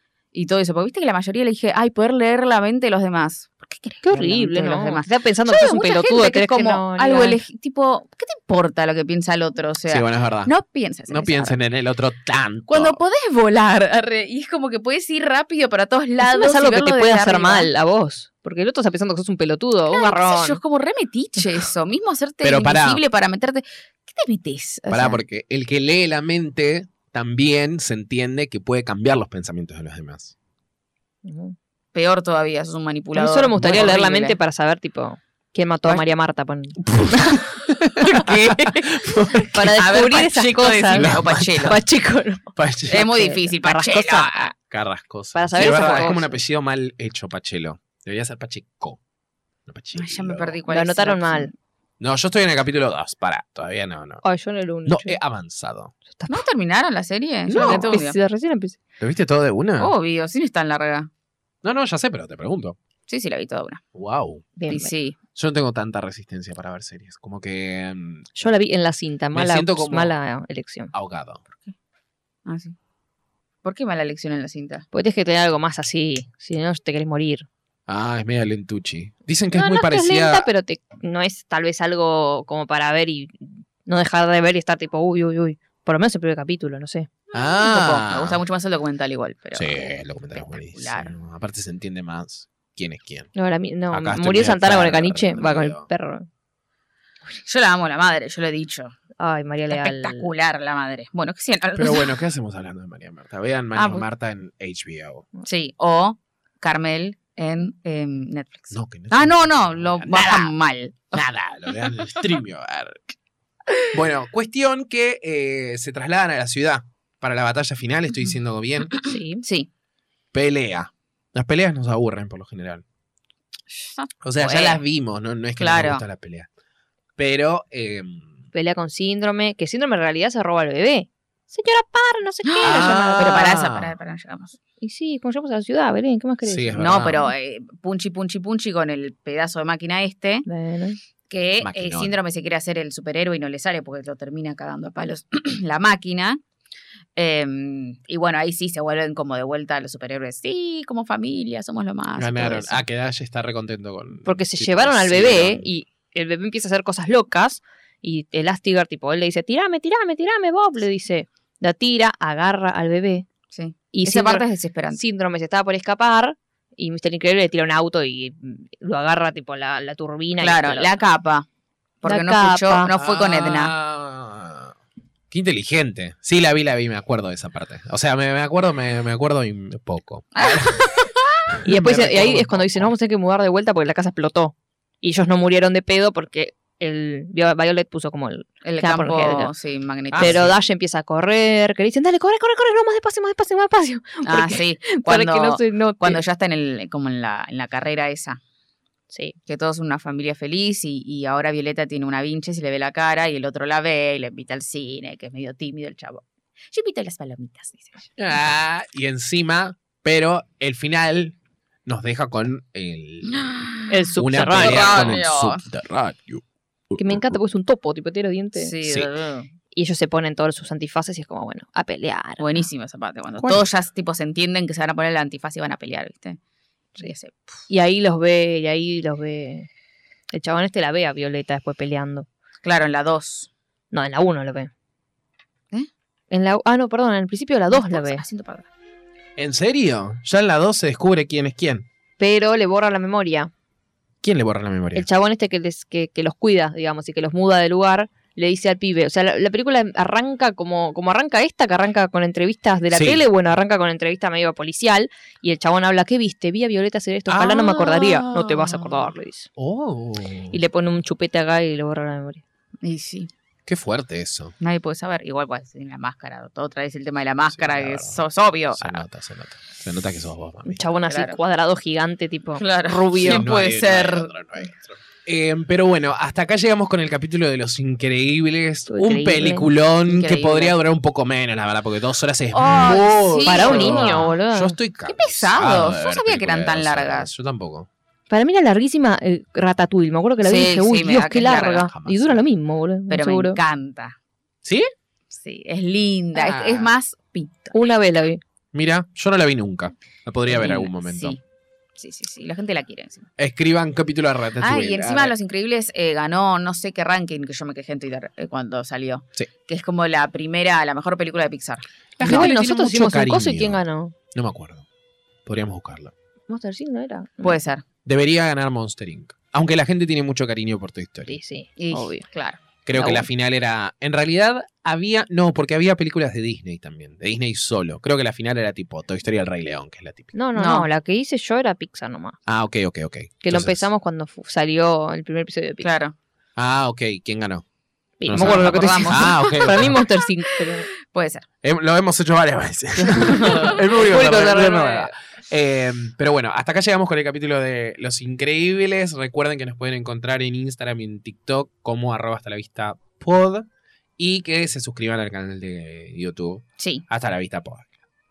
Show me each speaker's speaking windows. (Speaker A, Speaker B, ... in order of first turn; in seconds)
Speaker A: 0.3-11.6, 12.7-17.7, 19.9-25.2, 31.9-34.4, 38.0-39.0, 39.7-41.8, 42.9-44.5, 49.9-51.5, 56.3-58.1, 59.8-61.1, 63.1-63.8, 64.7-65.2, 72.4-72.8, 73.6-74.8, 87.3-91.1, 97.4-99.0, 99.7-102.1, 103.7-104.0, 105.4-111.2, 111.8-112.2, 119.0-119.7, 123.7-124.8, 125.6-126.0, 132.4-134.6, 136.8-140.4, 141.3-146.4, 147.2-152.8, 163.5-165.0, 170.4-171.5, 172.0-173.7, 180.3-181.4, 188.6-190.5, 194.2-198.4, 199.5-208.1, 213.4-215.6, 218.6-219.5, 222.4-226.4, 226.9-227.6, 232.6-233.5, 237.7-238.7, 262.8-263.3, 264.6-269.0, 271.1-271.4, 272.6-274.4, 280.1-280.8, 282.5-284.4, 285.0-287.3, 290.4-291.9, 293.1-294.2, 295.3-297.7, 300.5-301.4, 301.9-303.3, 304.6-312.5, 317.4-317.8, 321.8-323.2, 330.5-330.9, 335.8-336.1, 338.3-341.4, 343.2-343.8, 356.8-357.0
Speaker B: 4.0-7.4, 16.2-20.6, 31.2-31.6, 33.1-36.9, 39.5-44.5, 45.3-46.3, 50.7-51.5, 54.2-55.2, 56.1-56.4, 57.5-58.8, 64.6-64.9, 68.3-70.9, 74.9-77.5, 79.5-87.1, 93.3-96.3, 99.2-100.3, 119.0-119.4, 128.5-133.5, 134.8-137.2, 140.5-141.0, 154.2-163.3, 163.9-164.4, 164.9-170.9, 172.0-172.9, 181.6-189.5, 190.2-196.2, 199.1-199.3, 213.9-215.2, 217.0-218.8, 219.7-222.6, 227.7-229.7, 230.3-232.3, 233.9-234.7, 236.3-238.2, 242.2-243.5, 244.9-259.5, 260.5-262.4, 270.7-273.5, 278.9-279.7, 283.4-284.8, 288.3-293.6, 297.7-298.4, 312.2-314.1, 316.5-317.6, 321.3-322.2, 330.3-332.4, 333.4-335.9, 338.2-340.9, 343.0-345.1
Speaker C: 9.9-10.5, 11.1-13.0, 22.4-23.0, 24.9-30.3, 33.6-34.0, 36.8-39.7, 40.9-41.8, 42.5-43.1, 44.7-49.0, 49.7-50.6, 52.0-54.2, 54.9-55.9, 57.5-57.9, 59.0-59.9, 61.6-62.8, 63.9-64.5, 65.3-68.3, 69.3-70.1, 70.9-71.4, 77.9-80.5, 87.3-88.4, 89.5-93.3, 93.9-95.8, 101.8-105.2, 108.7-110.5, 111.1-113.1, 113.9-119.0, 120.3-122.8, 124.2-126.5, 127.2-128.4, 132.6-133.9, 136.4-137.2, 141.6-142.2, 152.2-155.7, 172.9-174.7, 175.3-182.9, 190.1-190.5, 208.2-217.4, 218.8-219.1, 223.4-223.7, 239.4-241.9, 244.2-245.1, 252.9-253.2, 257.3-258.8, 259.6-260.6, 263.6-264.5, 267.5-268.2, 268.7-270.8, 273.2-287.9, 291.8-292.4, 294.6-294.9, 296.4-296.9, 298.7-301.4, 303.4-305.3, 312.2-313.8, 314.3-314.9, 315.4-316.1, 318.0-321.4, 322.8-330.3, 332.4-333.9, 336.6-337.6, 338.2-340.0, 341.6-353.7, 354.2-357.9